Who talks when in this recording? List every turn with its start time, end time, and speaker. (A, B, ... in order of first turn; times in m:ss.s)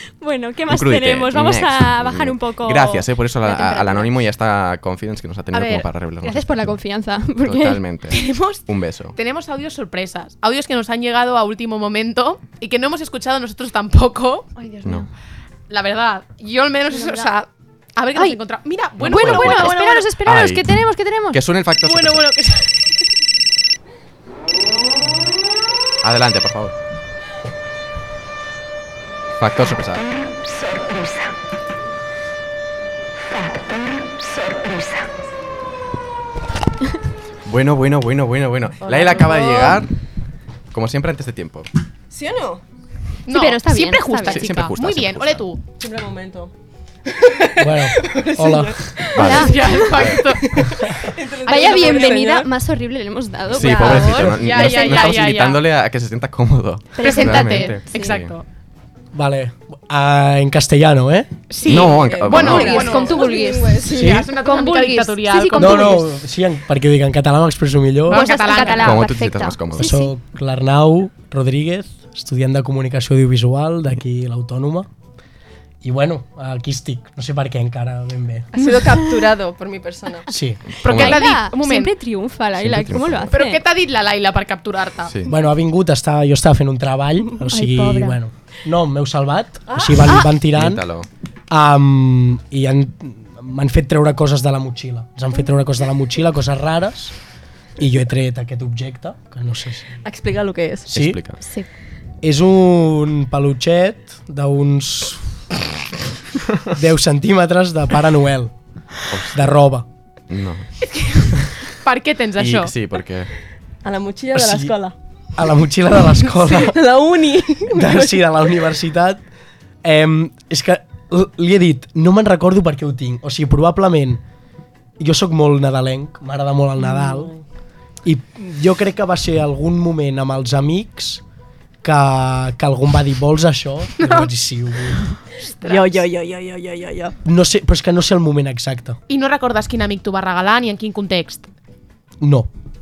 0:00.2-0:04.1 A
0:00.7-0:06.8 B
0:05.5-0:05.9 C
0:06.2-0:07.8 A
0:07.4-0:09.1 B
0:08.1-0:08.6 C
0:09.1-0:14.5 C
0:14.6-0:15.1 A
0:15.7-0:20.1 C
0:16.9-0:17.3 A
0:19.0-0:20.7 B
0:19.1-0:21.4 A
0:21.3-0:22.3 B
0:21.8-0:23.0 C
0:26.0-0:26.8 B
0:29.4-0:30.1 B
0:37.5-0:39.9 B
0:38.8-0:39.8 D
0:40.7-0:41.7 B
0:42.1-0:42.6 D
0:43.3-0:45.6 C
0:43.3-0:44.5 A
0:44.3-0:45.4 B
0:45.8-0:46.5 D
0:47.1-0:52.5 D
0:47.6-0:48.8 E
0:49.1-0:50.2 B
0:49.2-0:50.0 A
0:49.2-0:50.7 C
0:51.4-0:55.2 A
0:53.5-0:58.4 B
0:53.8-0:55.6 C
0:53.8-0:54.4 E
0:57.0-0:58.2 A
0:57.0-0:58.4 C
0:59.1-1:01.3 E
1:01.5-1:03.3 C
1:01.6-1:02.9 B
1:01.7-1:04.2 D
1:02.3-1:06.0 A
1:03.9-1:04.3 E
1:04.0-1:06.0 C
1:05.5-1:08.2 E
1:08.1-1:09.1 C
1:08.1-1:10.1 A
1:08.5-1:09.9 B
1:09.7-1:14.9 E
1:15.8-1:18.5 E
1:18.6-1:20.3 D
1:20.3-1:20.6 E
1:20.7-1:21.2 B
1:20.8-1:23.6 A
1:20.8-1:21.9 C
1:22.6-1:23.3 B
1:23.3-1:25.1 C
1:25.1-1:25.3 B
1:25.3-1:30.8 E
1:27.5-1:28.2 A
1:29.7-1:30.1 D
1:30.1-1:30.3 A
1:30.5-1:31.1 B
1:31.5-1:37.1 E
1:37.8-1:40.0 E
1:40.0-1:40.9 D
1:40.9-1:41.2 E
1:40.9-1:41.4 B
1:41.4-1:41.7 A
1:42.2-1:45.2 E
1:46.7-1:48.5 E
1:49.1-1:49.5 B
1:49.3-1:49.9 E
1:50.3-1:51.7 B
1:50.9-1:52.7 C
1:52.4-1:53.3 B
1:53.8-1:55.0 D
1:54.3-1:54.8 E
1:55.4-1:56.8 E
1:56.4-1:58.2 D
1:57.7-1:59.2 E
1:59.8-2:04.2 E
2:05.0-2:07.3 E
2:06.8-2:07.4 D
2:08.0-2:11.2 E
2:11.8-2:15.0 E
2:14.0-2:14.3 C
2:15.6-2:16.0 C
2:15.6-2:17.2 D
2:17.2-2:19.0 E
2:19.1-2:21.5 C
2:22.2-2:22.5 E